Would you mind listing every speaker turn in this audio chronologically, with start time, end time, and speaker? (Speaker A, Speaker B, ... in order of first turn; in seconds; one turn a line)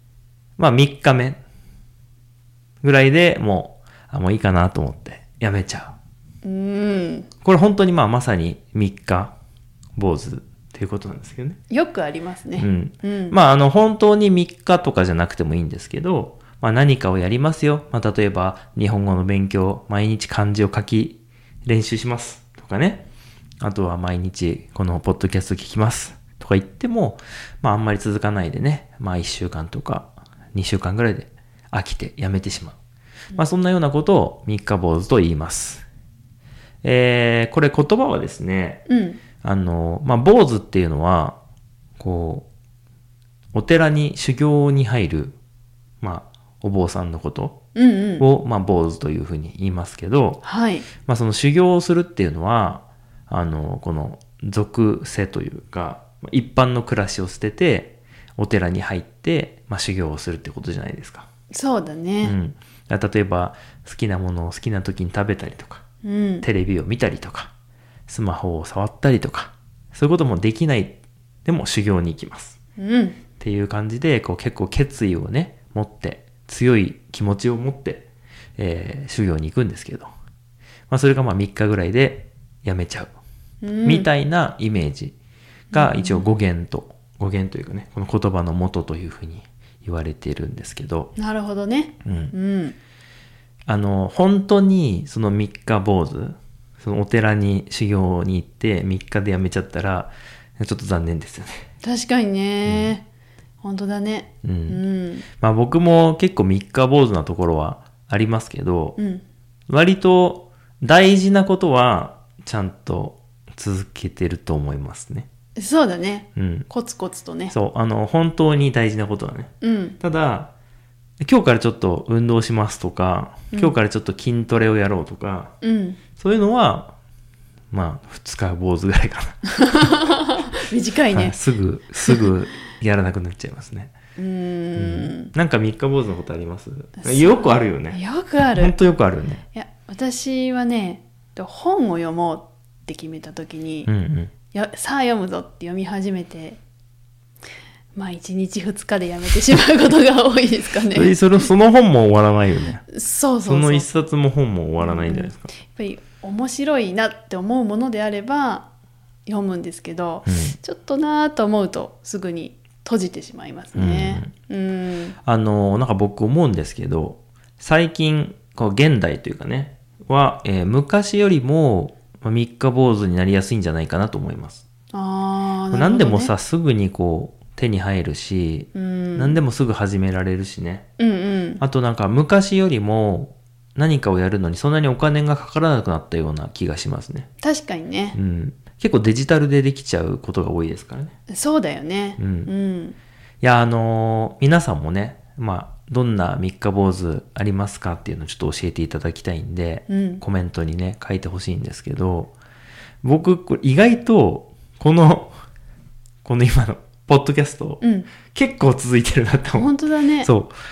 Speaker A: 0.6-1.4
Speaker A: 2.8-6.0
Speaker B: 6.4-7.3
Speaker A: 7.4-9.3
Speaker A: 9.9-11.6
Speaker B: 11.7-13.3
Speaker A: 12.6-23.0
Speaker A: 23.6-32.8
Speaker A: 33.3-35.8
Speaker A: 36.8-38.8
Speaker B: 38.9-39.2
Speaker A: 39.4-41.4
Speaker A: 42.0-42.5
Speaker A: 43.5-45.4
Speaker A: 46.0-47.6
Speaker B: 47.7-48.2
Speaker A: 48.2-50.4
Speaker B: 50.4-50.9
Speaker A: 51.0-61.3
Speaker B: 61.5-62.3
Speaker A: 62.2-65.8
Speaker B: 66.0-66.5
Speaker A: 66.4-67.5
Speaker A: 68.1-72.6
Speaker B: 72.8-73.2
Speaker A: 73.4-80.1
Speaker A: 80.9-83.1
Speaker B: 83.6-84.1
Speaker A: 83.8-85.1
Speaker B: 85.7-86.2
Speaker A: 85.7-91.1
Speaker B: 91.2-92.8
Speaker A: 92.0-92.3
Speaker A: 93.7-101.7
Speaker B: 101.8-103.0
Speaker A: 102.6-102.9
Speaker B: 103.6-105.2
Speaker A: 104.4-104.8
Speaker A: 105.3-109.0
Speaker B: 109.0-109.2
Speaker A: 109.7-115.3
Speaker B: 115.5-117.5
Speaker A: 116.3-116.7
Speaker A: 117.5-120.5
Speaker B: 119.6-120.0
Speaker A: 121.2-125.5
Speaker B: 125.6-126.0
Speaker A: 126.2-126.9
Speaker A: 127.7-129.9
Speaker B: 129.6-131.3
Speaker A: 131.1-133.9
Speaker B: 134.2-135.3
Speaker A: 134.8-138.0
Speaker B: 137.0-138.7
Speaker A: 138.5-139.4
Speaker B: 139.5-143.9
Speaker A: 143.9-144.3
Speaker B: 144.5-146.6
Speaker B: 147.9-151.1
Speaker A: 150.9-152.9
Speaker B: 152.9-153.9
Speaker A: 153.4-155.5
Speaker B: 154.8-158.7
Speaker B: 159.2-165.2
Speaker A: 160.2-160.6
Speaker A: 163.7-164.3
Speaker A: 165.2-174.6
Speaker B: 174.9-176.3
Speaker A: 175.7-180.9
Speaker B: 178.7-179.4
Speaker B: 181.0-181.6
Speaker A: 181.6-187.3
Speaker B: 187.4-188.2
Speaker A: 188.1-191.1
Speaker B: 191.3-192.9
Speaker A: 192.2-192.5
Speaker A: 193.4-202.3
Speaker B: 199.9-200.2
Speaker A: 203.0-205.4
Speaker A: 206.2-209.7
Speaker B: 207.8-208.1
Speaker B: 209.5-210.3
Speaker A: 210.2-210.5